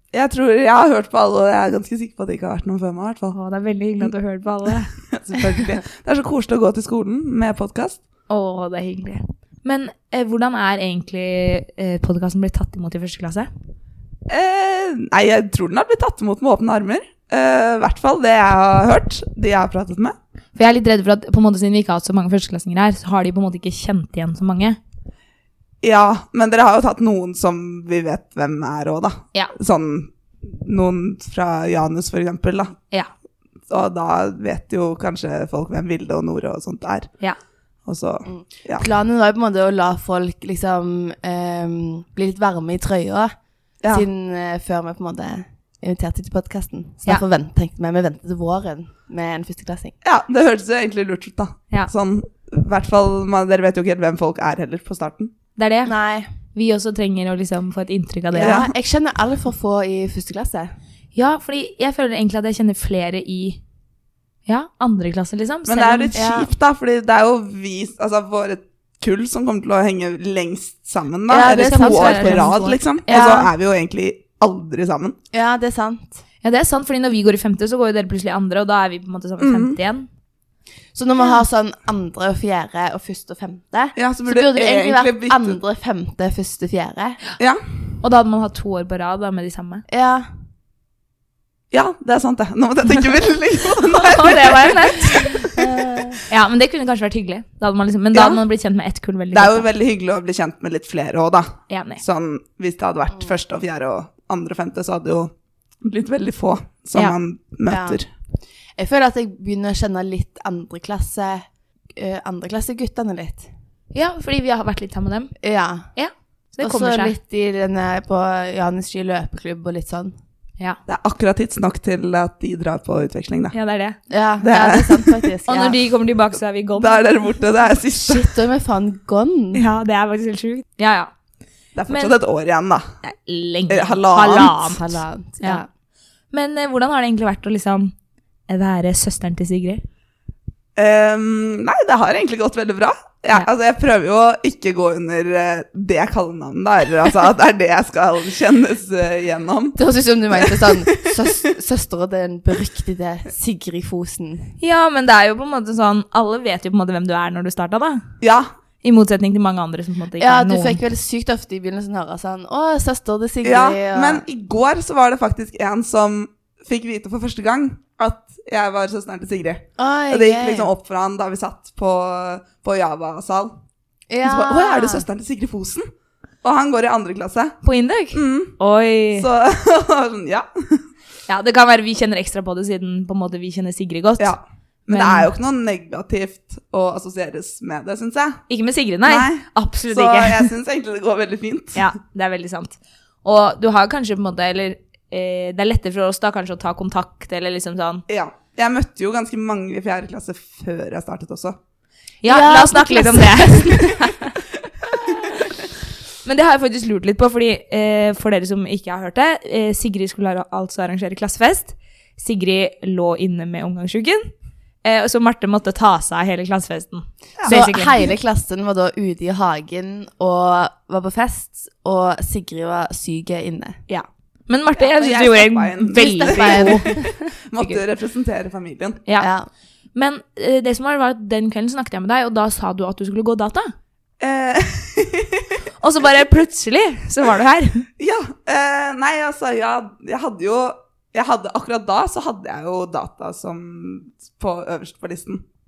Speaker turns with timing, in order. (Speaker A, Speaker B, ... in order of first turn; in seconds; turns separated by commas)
Speaker A: 0.1-3.4, Speaker B: 3.3-4.9, Speaker A: 4.7-8.0, Speaker B: 8.3-13.5, Speaker A: 14.3-20.2, Speaker B: 20.6-24.8, Speaker A: 25.8-32.8, Speaker A: 33.7-37.1, Speaker A: 37.9-38.9, Speaker C: 38.2-43.3, Speaker C: 43.9-49.9, Speaker A: 50.0-55.3, Speaker B: 55.6-55.9, Speaker C: 55.9-56.3, Speaker B: 56.5-58.6, Speaker C: 58.3-60.7, Speaker A: 58.4-58.7, Speaker B: 61.1-63.6, Speaker B: 64.5-66.2, Speaker A: 65.7-75.2, Speaker C: 66.2-66.5, Speaker C: 71.3-73.5, Speaker B: 71.4-72.8, Speaker C: 75.3-76.2, Speaker B: 76.4-80.1, Speaker A: 79.4-79.8, Speaker C: 81.0-87.2, Speaker A: 84.0-85.6, Speaker B: 88.0-89.8, Speaker C: 89.9-90.3, Speaker A: 91.7-96.0, Speaker B: 93.8-99.7, Speaker A: 98.1-98.4, Speaker A: 99.3-108.1, Speaker B: 101.7-102.0, Speaker C: 107.7-108.0, Speaker C: 108.8-113.5, Speaker B: 113.9-115.3, Speaker C: 115.4-115.9, Speaker B: 116.0-117.1, Speaker C: 116.6-120.2, Speaker A: 120.9-123.5, Speaker B: 123.5-124.0, Speaker C: 124.1-125.8, Speaker A: 124.4-125.3, Speaker B: 125.5-127.1, Speaker A: 126.8-128.3, Speaker C: 127.9-129.6, Speaker B: 129.5-131.1, Speaker A: 131.8-132.8, Speaker B: 131.9-132.2, Speaker B: 133.0-135.7, Speaker A: 133.7-134.6, Speaker C: 134.4-135.7, Speaker B: 136.3-137.9, Speaker B: 138.5-139.8, Speaker A: 140.8-149.8, Speaker C: 149.8-154.5, Speaker A: 150.3-151.2, Speaker B: 154.6-158.1, Speaker A: 158.2-158.5, Speaker B: 158.8-160.8, Speaker C: 160.2-164.2, Speaker A: 163.4-173.6, Speaker C: 169.8-170.7, Speaker C: 174.1-175.0, Speaker A: 174.2-175.8, Speaker A: 176.4-177.6, Speaker B: 177.6-179.3, Speaker A: 178.1-178.6, Speaker A: 179.1-180.8, Speaker B: 181.3-184.3, Speaker A: 184.2-188.4, Speaker B: 184.9-185.3, Speaker B: 188.5-190.5, Speaker A: 189.0-191.9, Speaker B: 191.8-198.0, Speaker A: 198.1-201.6, Speaker B: 202.2-203.9, Speaker C: 202.3-204.3, Speaker B: 206.2-214.3, Speaker B: 214.8-218.0, Speaker A: 217.4-217.7, Speaker C: 217.5-223.8, Speaker B: 223.9-227.2, Speaker A: 224.7-229.0, Speaker C: 225.9-227.8, Speaker C: 229.2-229.5, Speaker B: 229.9-233.7, Speaker A: 234.2-235.7, Speaker B: 235.8-237.8, Speaker A: 238.0-245.4